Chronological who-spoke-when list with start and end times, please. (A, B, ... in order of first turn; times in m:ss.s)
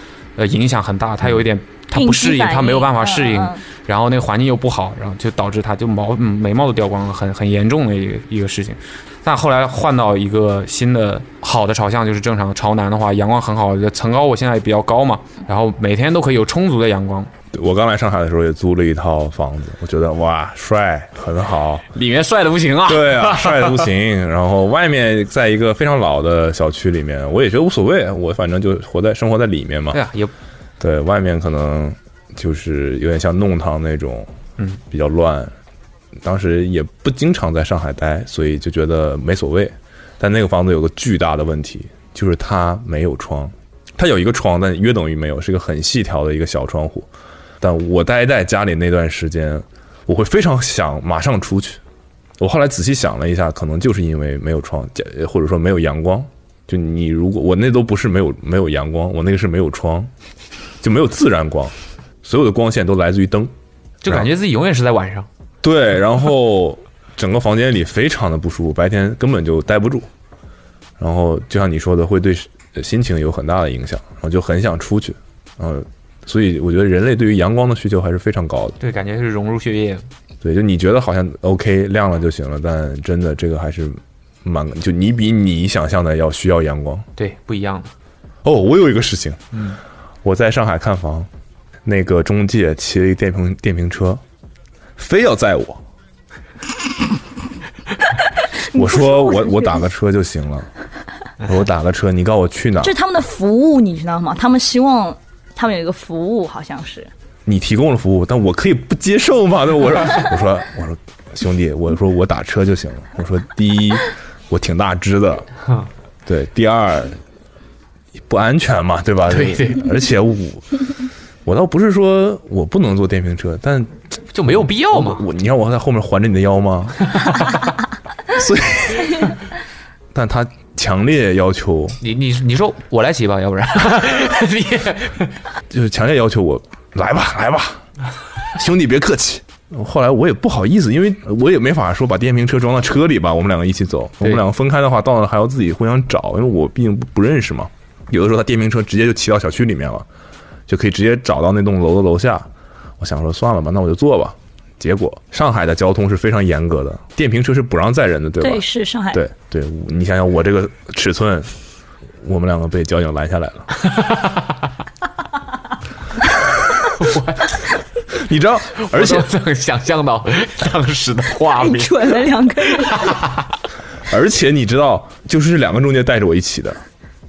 0:00.4-0:17.3 A
0:01.9-0:03.6 B
0:17.5-0:21.8 C
0:21.9-0:23.8 A
0:22.9-0:30.0 C
0:29.9-0:30.3 A
0:30.8-0:34.3 C
0:34.9-0:35.5 C
0:36.2-0:47.1 C
0:47.6-0:51.8 C
0:52.4-1:00.1 C
1:00.8-1:03.5 C
1:04.0-1:05.3 A
1:05.6-1:10.1 C
1:11.0-1:18.8 C
1:18.8-1:20.0 A
1:20.4-1:27.1 C
1:27.2-1:27.9 A
1:28.4-1:29.4 C
1:30.2-1:31.3 C
1:31.8-1:34.2 C
1:35.0-1:35.8 C
1:38.7-1:39.7 B
1:38.7-1:40.7 C
1:41.4-1:43.0 C
1:42.8-1:47.1 B
1:47.5-1:55.5 C
1:56.3-1:57.2 C
1:58.3-2:00.8 C
1:59.3-1:59.8 A
2:01.4-2:07.2 C
2:04.3-2:05.2 A
2:07.1-2:07.6 A
2:08.3-2:09.4 C
2:10.1-2:12.0 C
2:12.0-2:15.3 A
2:15.7-2:17.8 C
2:18.6-2:30.0 C
2:30.7-2:32.5 C
2:33.0-2:41.5 C
2:38.4-2:39.2 B
2:42.2-2:43.7 C
2:43.8-2:44.5 A
2:46.9-2:47.6 A
2:48.2-2:49.3 C
2:48.8-2:52.2 A
2:51.6-2:53.1 B
2:52.8-2:53.5 A
2:54.1-2:56.8 C